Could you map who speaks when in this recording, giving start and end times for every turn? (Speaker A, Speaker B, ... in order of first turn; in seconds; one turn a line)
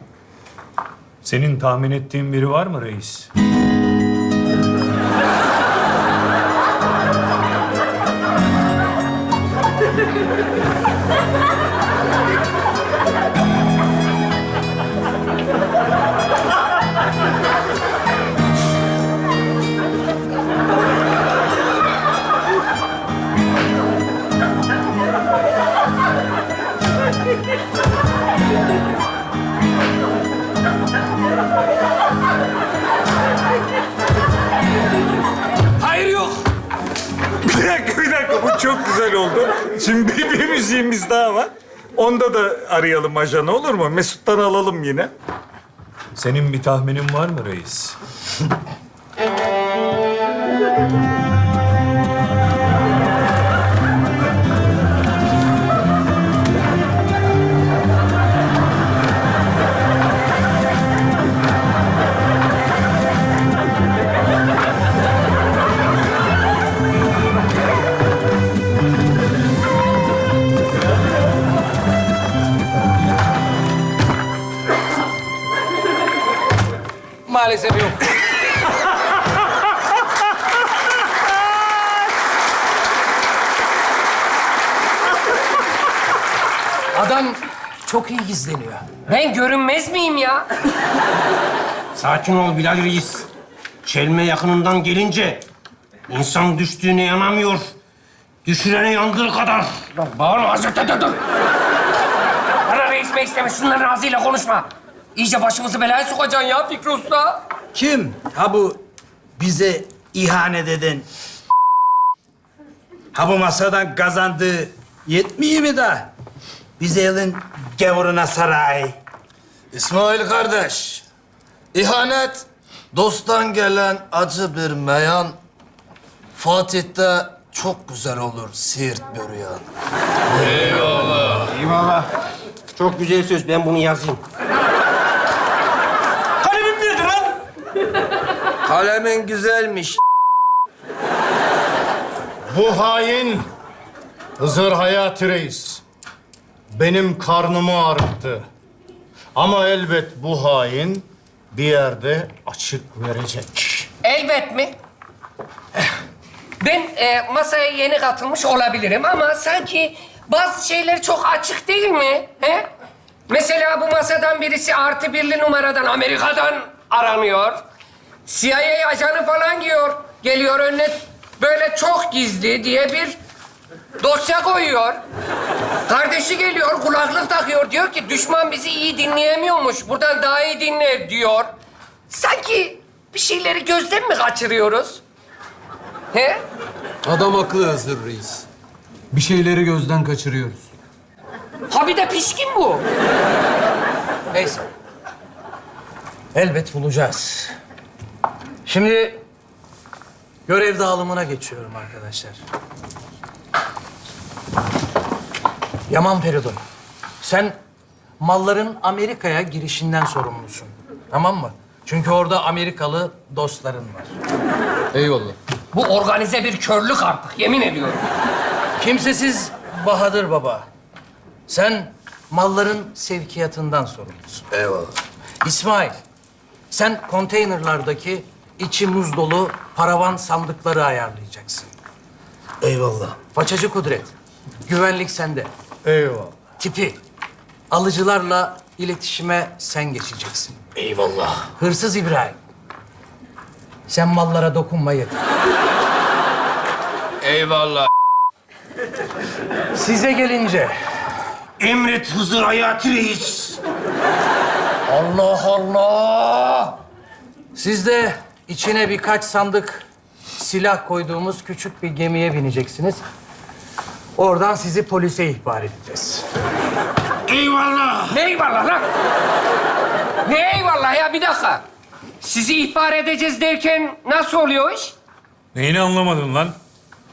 Speaker A: 1.2-3.3
Speaker B: 35.8-36.4
Speaker C: 37.4-45.1
Speaker A: 46.2-48.0
Speaker D: 77.3-78.0
Speaker D: 86.9-88.9
Speaker B: 89.1-90.5
Speaker E: 92.0-93.3
Speaker E: 93.8-95.5
Speaker E: 96.1-97.7
Speaker E: 98.5-99.9
Speaker B: 100.0-101.2
Speaker B: 102.7-107.4
Speaker F: 107.7-108.8
Speaker F: 109.4-111.1
Speaker F: 113.1-116.1
Speaker F: 116.8-119.0
Speaker G: 119.7-121.0
Speaker G: 121.7-125.4
Speaker G: 126.4-129.7
Speaker G: 130.3-131.5
Speaker E: 131.4-132.1
Speaker E: 132.8-134.2
Speaker E: 136.4-137.4
Speaker G: 138.7-140.0
Speaker H: 142.5-143.5
Speaker H: 144.4-145.8
Speaker H: 146.7-148.5
Speaker H: 149.4-153.9
Speaker B: 154.0-154.8
Speaker B: 156.6-162.7
Speaker B: 163.3-167.6
Speaker B: 168.3-173.2
Speaker B: 174.0-175.0
Speaker B: 175.9-181.5
Speaker B: 182.1-185.0
Speaker B: 186.1-186.4
Speaker I: 187.0-188.5
Speaker I: 189.1-190.7
Speaker B: 191.7-192.8
Speaker D: 194.3-194.6
Speaker D: 196.3-197.5
Speaker D: 198.7-199.2
Speaker D: 200.5-202.4
Speaker D: 205.9-206.6
Speaker D: 207.2-207.6
Speaker D: 208.2-214.2
Speaker I: 214.9-215.4
Speaker B: 215.7-218.0
Speaker D: 218.8-220.7
Speaker D: 221.5-224.4
Speaker G: 224.5-225.0
Speaker D: 225.4-226.0
Speaker D: 226.7-231.7
Speaker G: 232.6-233.2
Speaker D: 233.3-234.1
Speaker D: 234.7-235.5
Speaker H: 235.8-236.4
Speaker D: 236.6-237.0
Speaker D: 237.7-240.6
Speaker G: 240.8-241.4
Speaker D: 241.5-242.4
Speaker D: 243.9-245.2
Speaker G: 247.2-247.9
Speaker D: 249.7-250.8
Speaker E: 251.6-253.6
Speaker B: 254.9-256.8
Speaker D: 257.6-259.9
Speaker D: 260.4-263.0
Speaker D: 264.2-266.3
Speaker E: 267.3-268.2
Speaker B: 268.1-268.9
Speaker B: 270.2-271.6
Speaker B: 272.2-274.9
Speaker A: 275.5-276.6